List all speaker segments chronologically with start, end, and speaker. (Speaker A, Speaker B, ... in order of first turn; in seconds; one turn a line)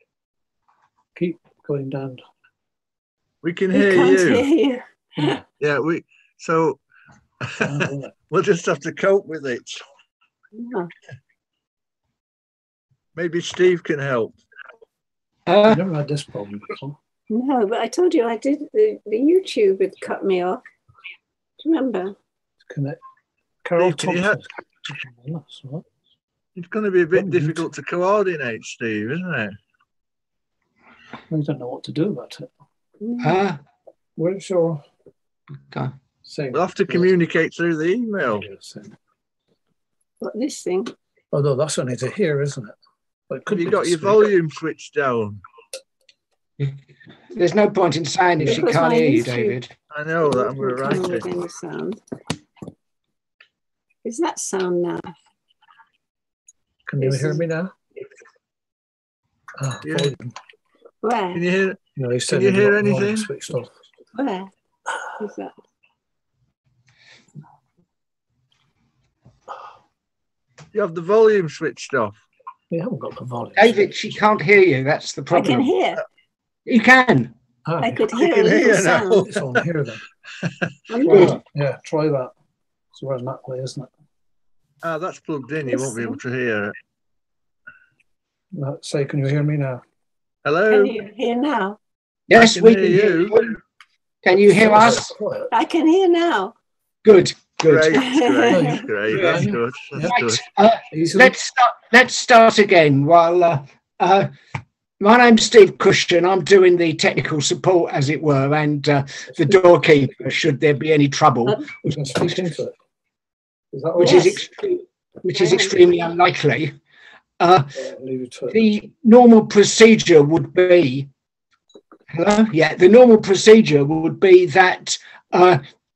Speaker A: 1.1-2.2
Speaker B: 3.4-4.5
Speaker C: 3.7-5.3
Speaker B: 5.6-6.8
Speaker B: 7.4-9.8
Speaker A: 7.6-8.1
Speaker C: 10.5-10.9
Speaker B: 13.2-14.4
Speaker D: 15.5-15.8
Speaker A: 15.7-17.0
Speaker C: 17.3-20.6
Speaker C: 21.6-22.1
Speaker A: 22.7-23.0
Speaker A: 23.6-25.8
Speaker B: 23.8-24.4
Speaker B: 26.6-29.5
Speaker A: 27.1-27.6
Speaker A: 31.3-32.5
Speaker C: 33.0-33.3
Speaker D: 33.2-33.6
Speaker A: 34.2-34.8
Speaker A: 36.2-37.2
Speaker B: 36.5-38.4
Speaker A: 38.3-38.9
Speaker C: 40.2-40.9
Speaker A: 41.3-42.8
Speaker A: 43.3-44.3
Speaker B: 43.5-45.4
Speaker D: 47.3-49.7
Speaker C: 48.4-49.6
Speaker B: 49.9-51.3
Speaker C: 50.2-52.0
Speaker C: 54.0-55.1
Speaker A: 56.9-57.7
Speaker C: 57.0-57.4
Speaker A: 59.6-60.3
Speaker B: 59.8-60.1
Speaker C: 61.0-61.4
Speaker B: 61.3-61.8
Speaker A: 62.0-63.8
Speaker B: 62.3-63.3
Speaker C: 64.1-64.5
Speaker C: 65.2-65.5
Speaker B: 70.7-72.2
Speaker A: 72.7-73.9
Speaker D: 73.5-75.7
Speaker C: 75.3-76.0
Speaker D: 76.7-77.3
Speaker A: 77.7-78.0
Speaker C: 77.8-79.2
Speaker B: 78.2-79.5
Speaker A: 79.2-80.0
Speaker C: 80.9-81.3
Speaker A: 81.0-82.3
Speaker A: 82.9-83.9
Speaker B: 84.8-86.8
Speaker C: 85.7-86.2
Speaker A: 88.5-89.8
Speaker B: 90.5-91.0
Speaker C: 90.7-91.8
Speaker D: 92.3-93.5
Speaker B: 92.4-93.4
Speaker D: 94.2-95.1
Speaker A: 94.3-95.5
Speaker C: 95.5-96.5
Speaker D: 97.0-98.0
Speaker B: 97.7-100.4
Speaker C: 97.9-98.8
Speaker A: 98.5-100.2
Speaker D: 100.0-104.3
Speaker A: 100.9-101.3
Speaker D: 105.0-111.6
Speaker A: 111.8-112.7
Speaker A: 113.7-114.4
Speaker D: 114.0-116.7
Speaker C: 114.0-114.3
Speaker C: 115.3-115.7
Speaker D: 117.4-117.7
Speaker A: 117.7-118.7
Speaker D: 118.5-121.1
Speaker D: 122.1-125.6